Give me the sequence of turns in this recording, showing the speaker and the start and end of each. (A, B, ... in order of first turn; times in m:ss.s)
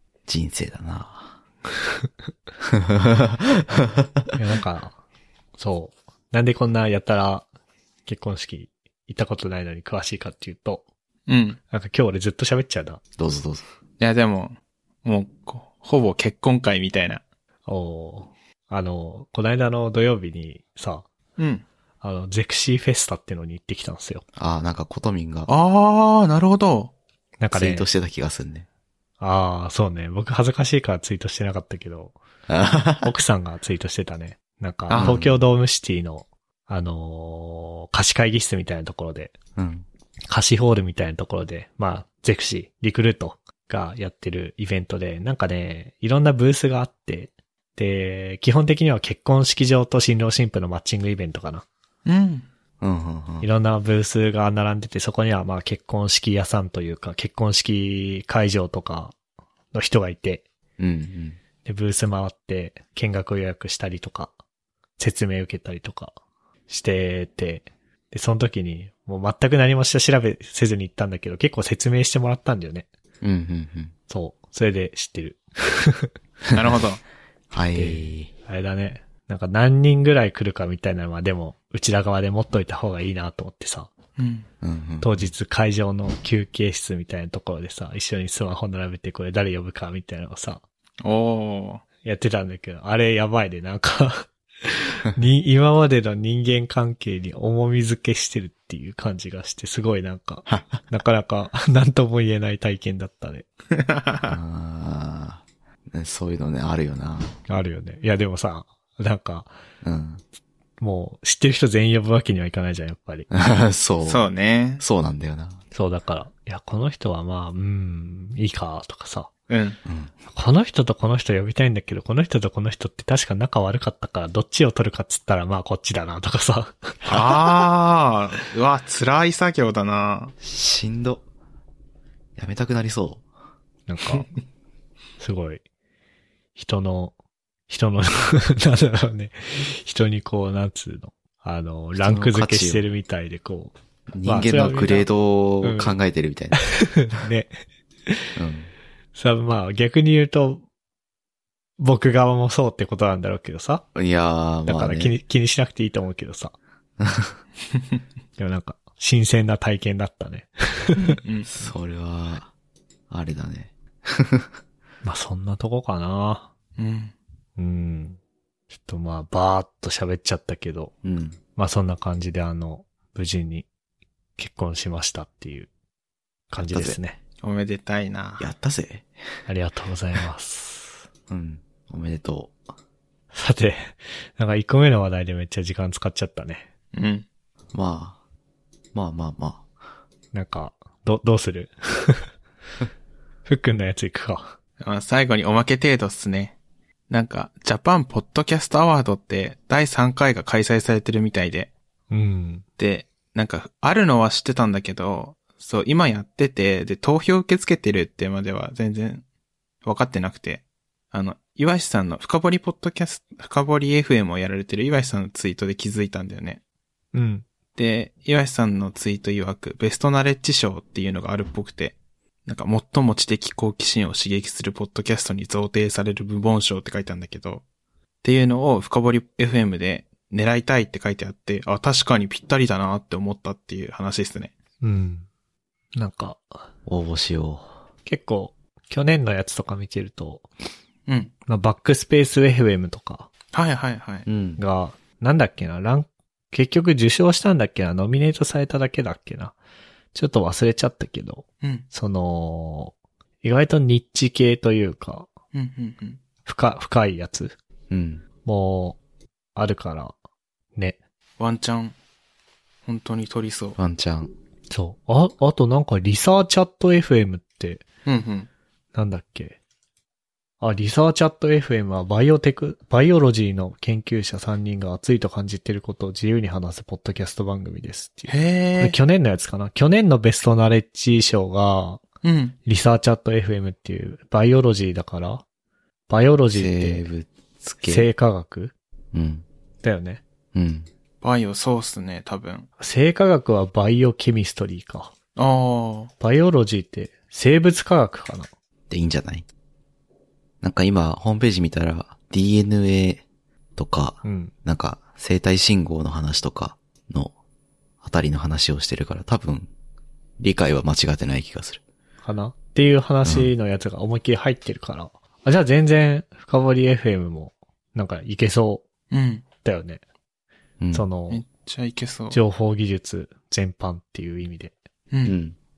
0:00.3-0:01.4 A
0:02.6-0:04.3 A
0:04.3-0:05.0 B
0:05.6-0:07.4 B
0:08.1-0:10.8 B
0:11.3-0:11.6 C
0:11.7-0:13.0 B
0:13.2-0:13.6 A
0:14.0-0:17.2 C
0:17.6-0:21.1 B
0:21.4-0:21.6 C
0:22.0-0:24.2 B
0:24.4-0:25.5 A
0:25.5-0:26.9 C
0:27.4-0:27.9 B
0:27.5-0:28.6 A
0:29.2-0:32.2 B
0:32.5-0:33.1 A
0:32.9-0:39.4 B
0:34.9-0:35.2 C
0:34.9-0:35.4 A
0:39.6-0:39.9 A
0:40.3-0:51.6 B
0:52.1-0:52.5 C
0:52.8-0:53.5 A
0:53.4-0:59.1 B
0:59.7-1:00.4 B
1:00.8-1:01.4 A
1:01.6-1:04.3 B
1:05.0-1:06.1 B
1:06.7-1:12.9 B
1:13.2-1:13.9 A
1:14.1-1:16.1 B
1:16.5-1:17.0 C
1:17.5-1:18.3 A
1:17.7-1:23.9 B
1:24.2-1:24.4 C
1:24.6-1:25.3 A
1:25.0-1:30.6 B
1:31.0-1:31.8 C
1:32.0-1:43.5 B
1:40.5-1:40.9 A
1:43.7-1:44.3 C
1:44.3-1:47.3 A
1:47.5-1:49.5 B
1:49.8-1:50.2 A
1:50.8-1:53.3 B
1:53.3-1:54.2 A
1:54.0-1:54.8 C
1:54.8-1:55.6 A
1:55.7-1:59.3 B
1:59.5-1:59.8 C
1:59.8-2:00.1 A
2:00.3-2:07.0 B
2:07.0-2:07.7 A
2:07.0-2:10.3 C
2:10.4-2:11.2 A
2:12.4-2:13.2 A
2:13.9-2:14.3 B
2:15.2-2:15.6 B
2:16.6-2:17.1 B
2:17.7-2:25.1 B
2:22.0-2:22.9 A
2:24.1-2:26.7 A
2:25.6-2:26.0 B
2:26.6-2:27.5 B
2:28.4-2:28.7 A
2:29.2-2:30.6 B
2:31.8-2:33.9 B
2:34.0-2:35.1 A
2:34.7-2:36.6 B
2:38.4-2:41.2 B
2:41.0-2:41.5 C
2:41.5-2:42.5 A
2:43.1-2:44.6 A
2:45.0-2:46.5 B
2:46.8-2:47.1 C
2:47.6-2:48.2 B
2:48.7-2:50.9 B
2:51.0-2:51.4 A
2:51.6-2:53.7 B
2:54.4-2:55.7 B
2:56.5-2:57.2 B
2:56.6-2:57.0 A
2:57.4-2:58.5 C
2:58.4-2:59.1 A
2:59.5-3:01.0 B
3:01.3-3:02.6 A
3:03.3-3:06.6 B
3:06.9-3:07.2 C
3:07.7-3:08.2 A
3:08.9-3:09.6 A
3:10.3-3:12.3 B
3:13.4-3:14.6 B
3:14.8-3:16.6 C
3:17.1-3:21.7 C
3:22.1-3:22.6 B
3:22.8-3:29.2 C
3:29.8-3:36.6 C
3:37.1-3:37.4 B
3:37.8-3:42.0 C
3:42.4-3:47.6 C
3:48.2-3:54.5 C
3:54.8-3:55.3 B
3:56.0-3:56.5 B
3:56.9-3:57.8 A
3:58.0-4:00.4 B
4:01.1-4:01.3 C
4:01.5-4:03.3 B
4:03.5-4:04.3 C
4:04.3-4:04.6 A
4:04.6-4:09.6 B
4:10.1-4:15.3 B
4:15.5-4:16.2 C
4:16.4-4:17.6 B
4:17.9-4:18.2 A
4:18.4-4:19.0 B
4:19.6-4:20.1 B
4:21.4-4:22.0 C
4:22.9-4:23.8 C
4:23.8-4:24.3 A
4:24.7-4:27.8 B
4:28.0-4:28.5 C
4:28.9-4:29.6 B
4:30.6-4:42.0 B
4:38.3-4:39.0 C
4:42.2-4:42.6 C
4:42.6-4:45.4 B
4:46.1-4:47.0 B
4:46.5-4:48.1 A
4:47.8-4:48.7 B
4:49.1-4:49.4 A
4:49.8-4:50.2 B
4:50.5-4:50.9 A
4:51.2-4:52.7 C
4:52.8-4:55.1 B
4:55.4-4:56.1 C
4:56.2-4:58.5 B
4:58.9-4:59.4 A
5:00.6-5:03.2 A
5:03.8-5:07.3 A
5:04.2-5:04.5 B
5:08.0-5:09.7 A
5:10.4-5:11.8 A
5:12.2-5:18.9 B
5:13.2-5:13.5 A
5:19.1-5:19.4 C
5:19.6-5:20.0 B
5:20.9-5:21.4 B
5:21.3-5:22.4 C
5:22.3-5:24.7 B
5:25.2-5:25.6 A